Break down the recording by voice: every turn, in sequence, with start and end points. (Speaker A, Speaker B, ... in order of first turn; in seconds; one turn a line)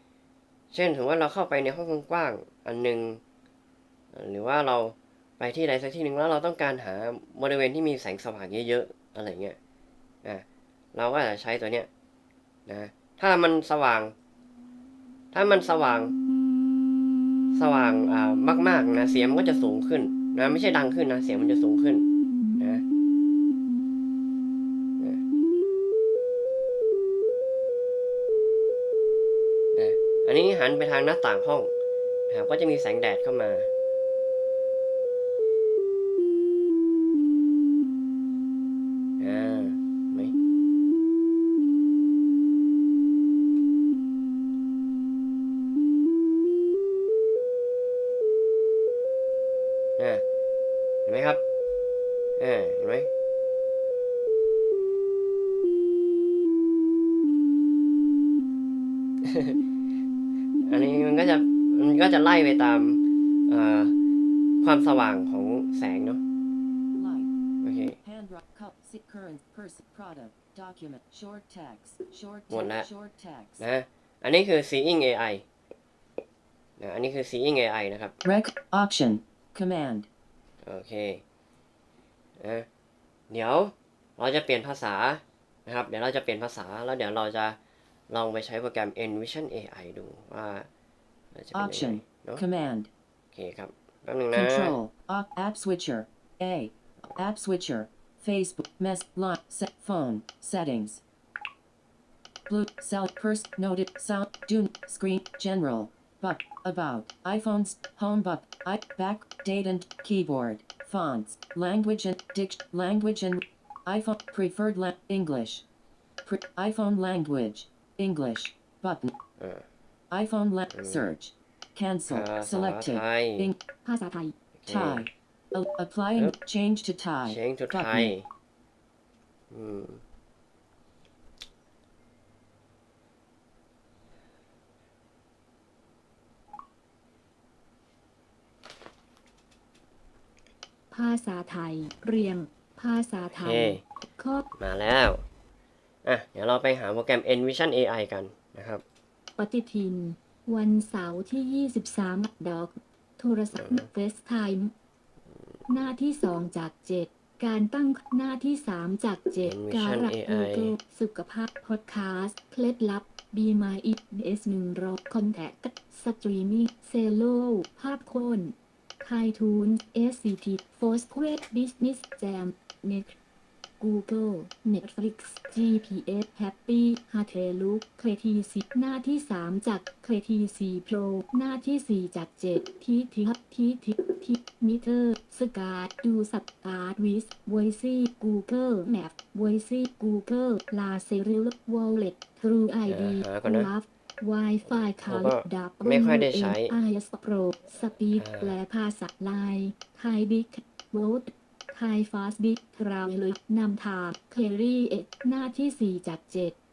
Speaker A: 0.7-3.2
Speaker A: 4.1-9.6
Speaker A: 10.2-11.9
Speaker A: 12.7-14.1
Speaker A: 15.3-16.1
Speaker A: 17.5-22.1
Speaker A: 22.6-22.8
Speaker A: 29.7-31.7
Speaker A: 32.3-33.7
Speaker A: 39.2-40.3
Speaker A: 50.0-50.2
Speaker A: 51.1-51.4
Speaker A: 52.4-53.1
Speaker A: 59.2-59.6
Speaker A: 60.6-64.0
Speaker A: 64.6-66.2
Speaker B: 67.0-67.3
Speaker A: 67.6-68.0
Speaker B: 68.0-73.7
Speaker A: 72.5-72.9
Speaker A: 73.6-75.5
Speaker A: 76.8-78.1
Speaker B: 78.2-80.1
Speaker A: 80.6-81.2
Speaker A: 82.4-82.7
Speaker A: 83.3-87.6
Speaker A: 88.1-90.7
Speaker A: 91.3-92.4
Speaker B: 91.5-92.9
Speaker A: 93.3-94.8
Speaker B: 94.3-101.0
Speaker B: 102.5-115.6
Speaker B: 116.2-119.2
Speaker A: 119.4-119.7
Speaker B: 120.1-123.6
Speaker A: 120.7-121.0
Speaker A: 122.1-123.5
Speaker C: 123.8-124.3
Speaker A: 124.6-125.1
Speaker B: 124.7-128.1
Speaker A: 127.2-128.3
Speaker A: 129.5-130.0
Speaker C: 140.9-144.4
Speaker A: 143.4-143.8
Speaker A: 144.6-145.2
Speaker A: 146.1-148.8
Speaker C: 149.4-154.7
Speaker A: 153.6-153.9
Speaker C: 155.7-173.1
Speaker A: 159.4-160.8
Speaker C: 173.8-206.6
Speaker A: 192.9-193.7
Speaker A: 194.7-196.8
Speaker A: 198.2-198.5